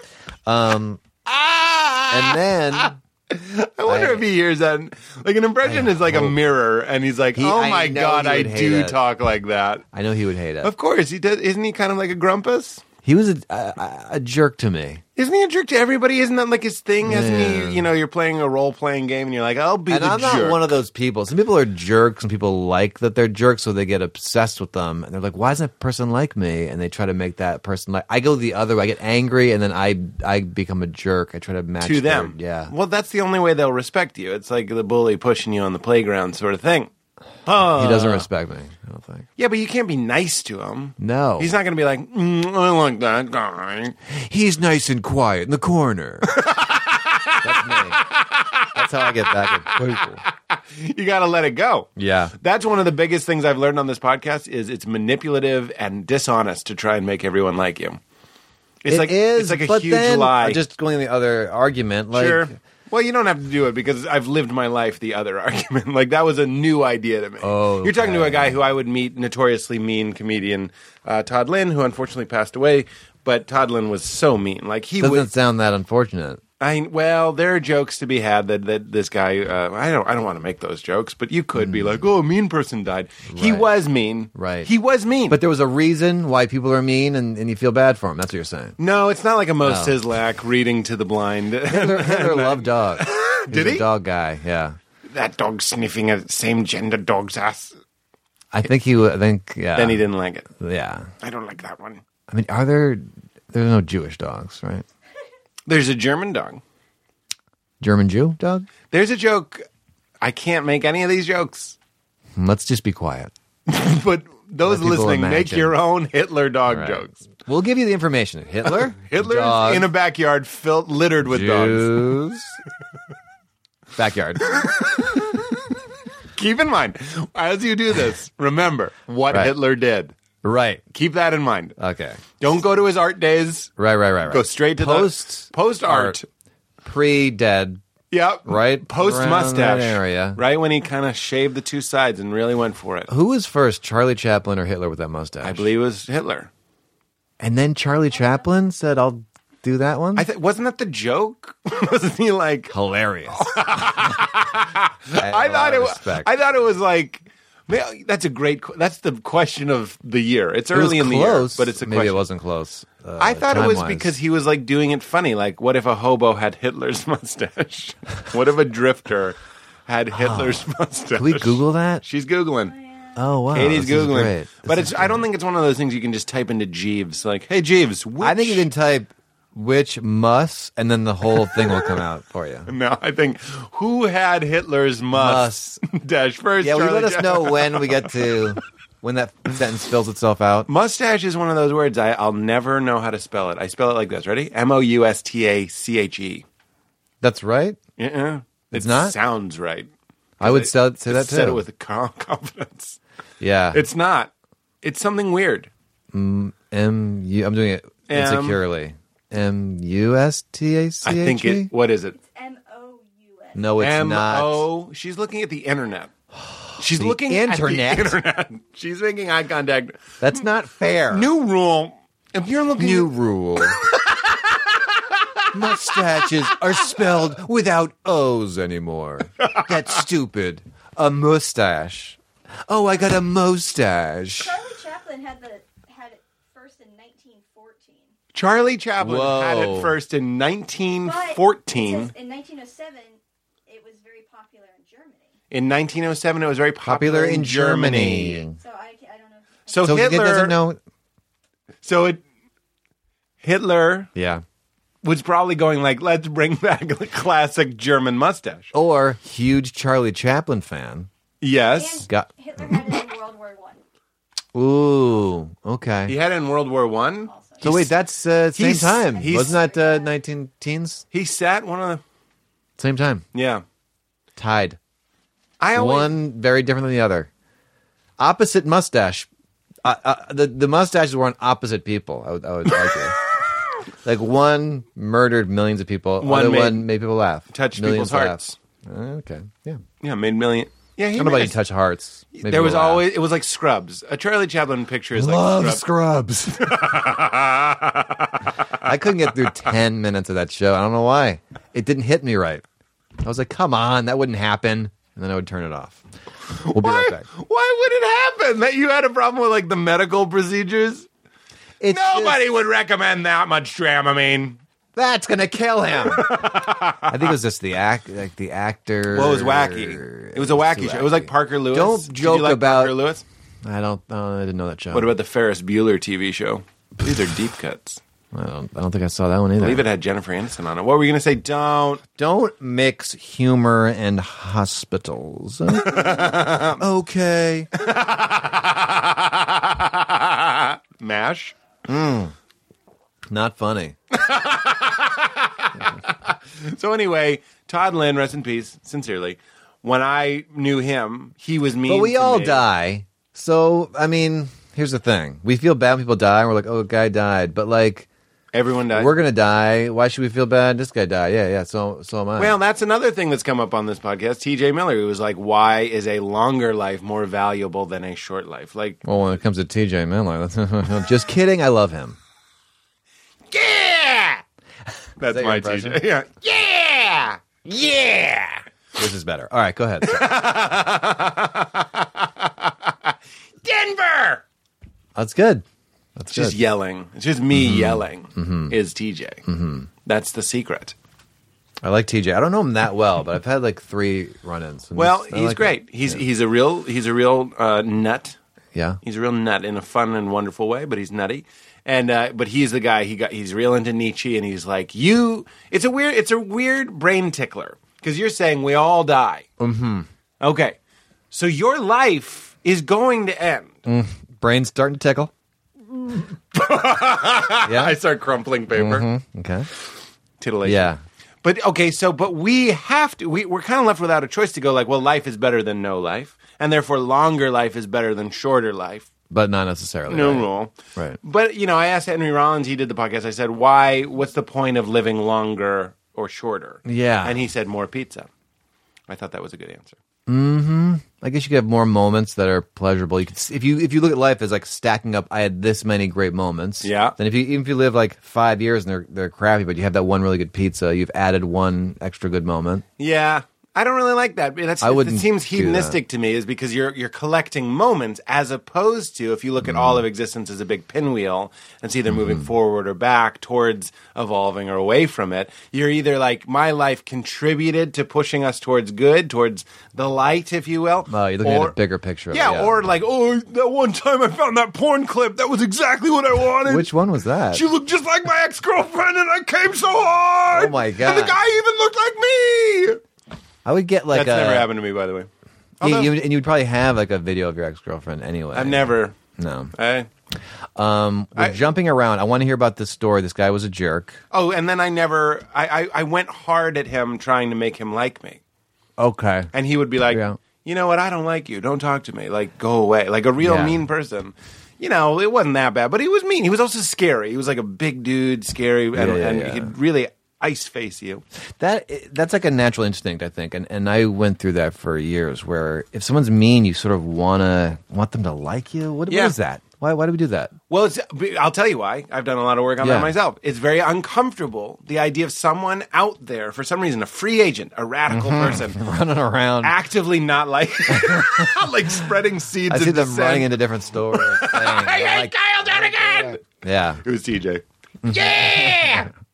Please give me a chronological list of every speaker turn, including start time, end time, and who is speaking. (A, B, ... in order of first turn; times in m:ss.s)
0:00.5-0:01.0 A
0:01.3-0:09.8 B
0:02.1-0:03.0 A
0:03.9-0:04.3 A
0:05.6-0:06.4 A
0:07.4-0:09.0 A
0:09.9-0:10.7 A
0:10.6-0:12.8 B
0:13.0-0:15.0 A
0:15.2-0:20.7 B
0:17.0-0:17.9 A
0:19.9-0:32.7 A
0:31.8-0:36.9 B
0:37.4-0:38.3 B
0:37.6-0:39.3 A
0:39.4-0:44.0 B
0:41.0-0:41.6 A
0:44.1-0:46.4 A
0:46.3-0:48.7 B
0:47.4-0:48.0 A
0:48.7-0:50.2 A
0:49.5-0:58.0 B
0:52.0-0:52.3 A
0:58.8-1:00.6 B
0:58.9-1:02.5 A
1:02.1-1:15.3 B
1:07.4-1:08.6 A
1:15.0-1:16.4 A
1:16.6-1:25.4 B
1:23.3-1:23.7 A
1:24.3-1:24.7 A
1:25.3-1:28.8 A
1:28.8-1:33.8 B
1:29.6-1:30.0 A
1:31.7-1:34.8 A
1:35.1-1:37.8 B
1:38.5-1:41.1 A
1:39.8-1:40.5 B
1:41.2-1:42.0 B
1:42.3-1:44.8 A
1:45.7-1:46.6 B
1:47.8-1:48.7 A
1:48.9-1:49.7 B
1:50.2-1:51.8 B
1:52.4-1:53.3 A
1:53.7-1:57.1 B
1:54.6-1:55.8 A
1:56.7-1:59.9 A
1:58.7-2:02.1 B
2:01.2-2:02.6 A
2:04.0-2:04.7 A
2:04.9-2:05.4 B
2:06.4-2:10.2 B
2:10.4-2:10.8 A
2:10.9-2:11.8 B
2:11.8-2:12.2 A
2:12.4-2:13.7 B
2:13.8-2:16.2 A
2:14.3-2:16.3 B
2:16.8-2:17.8 A
2:18.1-2:23.1 B
2:18.5-2:20.4 A
2:23.1-2:25.7 A
2:25.4-2:26.5 B
2:27.4-2:30.3 A
2:30.2-2:32.8 B
2:32.7-2:34.1 A
2:33.3-2:42.2 B
2:35.2-2:36.3 A
2:40.7-2:44.1 A
2:43.2-2:52.8 B
2:50.1-2:50.6 A
2:51.2-2:52.0 A
2:52.7-2:53.2 C
2:53.2-2:55.2 A
2:53.5-2:58.7 B
2:58.2-3:02.7 A
3:02.7-3:08.3 B
3:05.2-3:05.8 A
3:06.6-3:10.7 A
3:10.7-3:16.4 B
3:17.2-3:17.8 A
3:18.0-3:23.0 B
3:18.7-3:19.2 A
3:20.4-3:21.6 A
3:23.4-3:23.8 A
3:23.7-3:25.7 B
3:26.1-3:31.7 A
3:28.1-3:28.6 B
3:31.0-3:32.2 B
3:32.1-3:33.7 C
3:33.6-3:34.7 A
3:33.8-3:36.1 B
3:36.4-3:38.2 A
3:36.8-3:40.2 B
3:40.2-3:41.3 A
3:41.1-3:43.1 B
3:42.8-3:43.8 A
3:43.8-3:46.3 B
3:45.5-3:54.6 A
3:54.4-3:58.1 C
3:58.3-4:02.1 B
3:59.0-4:00.0 A
4:01.0-4:05.3 C
4:05.5-4:08.4 B
4:06.8-4:08.6 A
4:08.6-4:10.2 C
4:09.7-4:10.6 B
4:09.8-4:10.8 A
4:11.8-4:12.2 B
4:13.4-4:14.1 B
4:14.2-4:14.4 A
4:15.0-4:18.7 B
4:18.7-4:21.1 A
4:21.4-4:22.1 B
4:21.7-4:23.8 C
4:24.5-4:26.1 A
4:26.1-4:27.3 B
4:27.3-4:27.9 C
4:27.6-4:31.0 A
4:28.6-4:29.6 B
4:29.1-4:30.2 C
4:31.1-4:32.0 B
4:32.8-4:33.3 A
4:33.3-4:33.6 B
4:34.4-4:34.8 A
4:35.6-4:36.2 B
4:35.8-4:37.3 A
4:38.2-4:39.3 A
4:39.8-4:43.2 A
4:44.0-4:49.8 A
4:46.2-4:46.9 B
4:47.5-4:48.6 B
4:50.0-4:51.6 B
4:51.2-4:53.1 A
4:52.3-4:55.8 B
4:55.2-4:57.0 A
4:56.6-4:58.8 B
4:58.7-5:02.6 A
5:03.2-5:06.0 A
5:06.5-5:11.1 B
5:06.7-5:07.3 A
5:11.8-5:12.4 A
5:11.9-5:14.6 B
5:15.0-5:23.0 A
5:16.1-5:17.1 B
5:19.1-5:23.2 B
5:23.6-5:25.1 A
5:24.9-5:28.0 B
5:28.3-5:29.9 A
5:29.6-5:32.0 B
5:32.2-5:37.7 A
5:35.8-5:36.8 B
5:37.8-5:41.6 B
5:41.9-5:42.3 A
5:43.3-5:44.0 A
5:44.1-5:52.6 B
5:51.9-5:58.1 A
5:58.5-5:59.2 B
5:58.9-6:02.6 A
6:02.4-6:09.0 B
6:09.0-6:12.2 A
6:13.5-6:14.4 B
6:15.2-6:18.6 B
6:15.2-6:16.0 A
6:19.0-6:20.2 A
6:20.0-6:24.4 B
6:25.2-6:25.6 A
6:26.2-6:26.6 A
6:26.3-6:29.4 B
6:27.5-6:28.7 A
6:29.5-6:29.9 A
6:30.0-6:31.0 B
6:31.8-6:36.2 A
6:35.0-6:38.4 B
6:39.0-6:49.5 B
6:49.6-6:50.1 A
6:50.4-6:50.8 B
6:51.3-6:53.8 B
6:53.9-6:55.3 A
6:55.9-6:59.1 B
6:57.6-6:58.0 A
6:58.7-6:59.7 A
7:00.4-7:00.9 B
7:00.6-7:01.0 A
7:01.4-7:09.1 B
7:09.3-7:11.2 A
7:10.1-7:18.3 B
7:16.8-7:17.4 A
7:19.1-7:20.0 B
7:20.3-7:32.8 A
7:26.8-7:27.2 B
7:33.0-7:51.8 B
7:34.8-7:36.0 A
7:39.6-7:40.0 A
7:42.1-7:42.4 A
7:51.1-7:52.8 A
7:52.3-7:56.9 B
7:56.6-7:57.6 A
7:57.5-8:03.0 B
8:00.5-8:01.4 A
8:03.6-8:04.7 A
8:04.1-8:05.3 B
8:05.8-8:06.1 B
8:05.8-8:09.7 A
8:08.5-8:09.2 B
8:09.7-8:10.1 B
8:10.8-8:14.2 A
8:14.3-8:18.4 B
8:19.0-8:20.4 A
8:19.5-8:31.2 B
8:23.4-8:23.8 A
8:28.9-8:29.7 A
8:31.6-8:40.5 A
8:39.1-8:39.4 B
8:40.7-8:48.8 B
8:42.8-8:43.2 A
8:48.1-8:49.8 A
8:49.6-8:53.5 B
8:50.9-8:51.5 A
8:52.7-8:57.0 A
8:54.1-8:56.4 B
8:57.0-8:59.1 B
8:58.0-8:59.1 A